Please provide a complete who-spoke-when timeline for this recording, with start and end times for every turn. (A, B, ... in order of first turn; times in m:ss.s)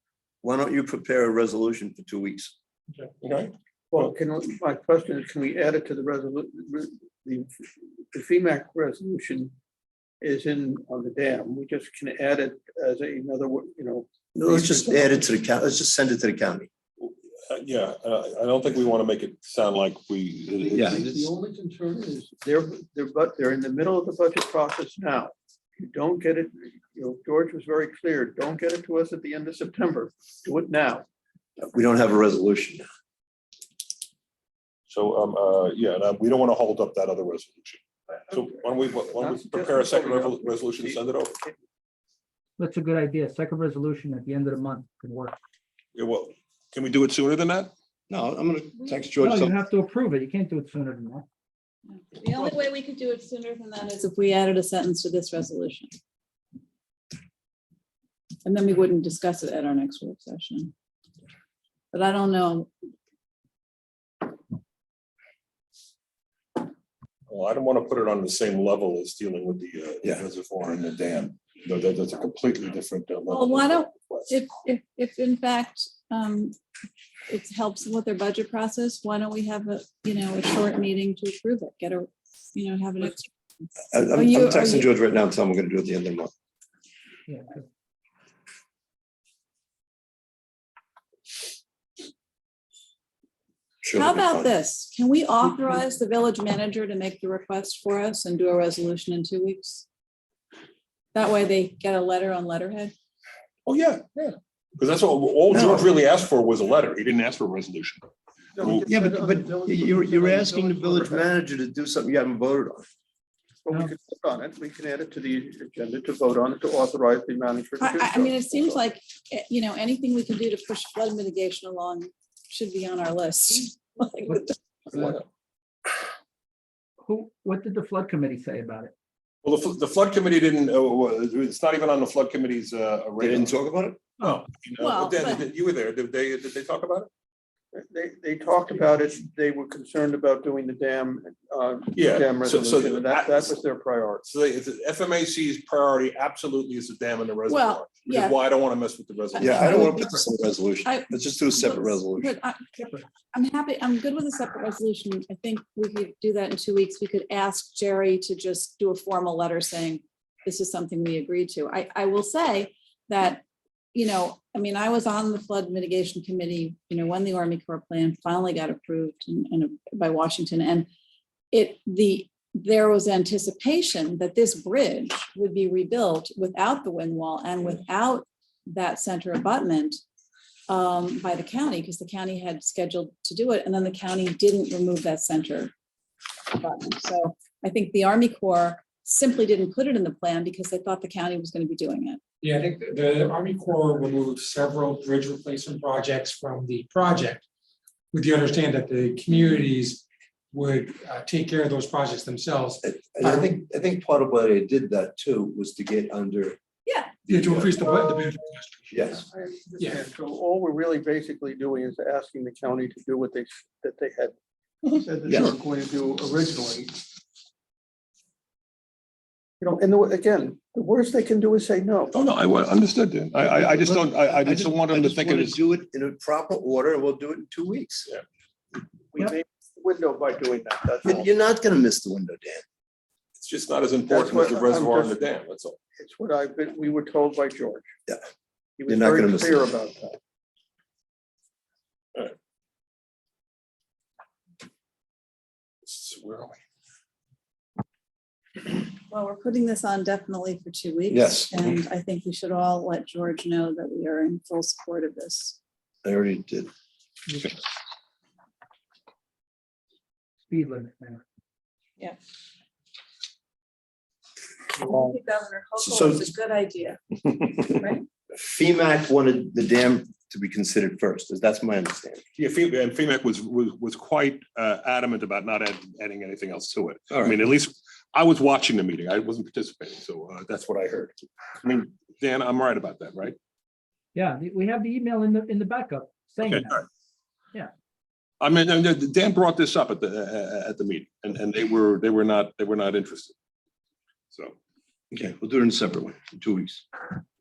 0:00.4-0:02.5 A
0:03.2-0:04.1 B
0:03.9-0:09.5 C
0:10.2-0:15.3 C
0:14.3-0:16.7 A
0:17.0-0:20.8 B
0:20.6-0:31.0 C
0:20.8-0:21.2 A
0:31.6-0:32.8 A
0:34.9-0:41.3 B
0:39.1-0:41.6 C
0:42.6-0:45.4 D
0:45.9-0:47.7 B
0:48.1-0:49.6 A
0:49.2-0:51.2 D
0:51.9-0:55.9 E
0:58.4-1:00.7 E
1:01.9-1:02.7 E
1:07.3-1:14.3 B
1:13.3-1:16.6 E
1:17.3-1:23.3 E
1:23.9-1:26.3 A
1:24.1-1:24.9 E
1:27.3-1:27.6 D
1:33.8-1:34.5 A
1:33.9-1:39.8 E
1:41.1-1:42.9 E
1:43.6-1:48.0 B
1:45.5-1:45.9 A
1:48.6-1:51.3 C
1:48.6-1:48.9 B
1:48.9-1:52.8 A
1:53.6-1:58.7 C
1:57.8-2:04.5 E
2:04.3-2:05.2 D
2:04.9-2:05.2 B
2:07.0-2:08.9 D
2:09.4-2:13.5 B
2:13.2-2:14.0 A
2:14.2-2:17.1 B
2:14.8-2:15.4 E
2:17.7-2:24.2 C
2:21.9-2:23.5 B
2:24.2-2:29.9 B
2:27.5-2:28.4 E
2:29.3-2:30.2 E
2:29.4-2:32.3 A
2:30.8-2:43.4 E
2:32.8-2:33.0 D
2:43.9-2:50.9 E
2:51.5-3:00.0 E
3:00.7-3:05.7 E
3:06.5-3:12.2 E
3:12.4-3:17.4 F
3:14.1-3:14.7 B
3:18.1-3:22.8 F
3:18.1-3:18.7 B
3:19.2-3:19.7 B
3:22.8-3:26.6 A
3:26.8-3:27.1 E
3:27.2-3:28.0 A
3:27.3-3:28.6 B
3:28.2-3:28.7 F
3:28.9-3:29.2 A
3:29.1-3:34.3 C
3:34.9-3:36.9 C
3:35.3-3:35.5 A
3:39.6-3:42.1 C
3:42.1-3:45.6 B
3:43.6-3:48.1 A
3:49.1-3:51.3 C
3:51.0-3:52.6 A
3:53.4-3:55.8 B
3:54.1-3:55.2 C
3:56.0-3:57.9 C
3:58.8-4:00.2 C
3:58.9-3:59.5 A
4:05.8-4:06.6 B
4:09.1-4:15.6 E
4:11.1-4:11.8 A
4:16.0-4:16.7 A
4:17.3-4:17.5 D
4:20.5-4:21.2 D
4:24.7-4:28.0 E
4:25.8-4:26.3 A
4:28.4-4:32.2 A
4:32.3-4:43.4 B
4:44.1-4:46.8 D
4:46.4-4:46.8 B
4:48.4-4:53.3 B
4:54.3-4:54.6 B
4:55.1-4:56.9 A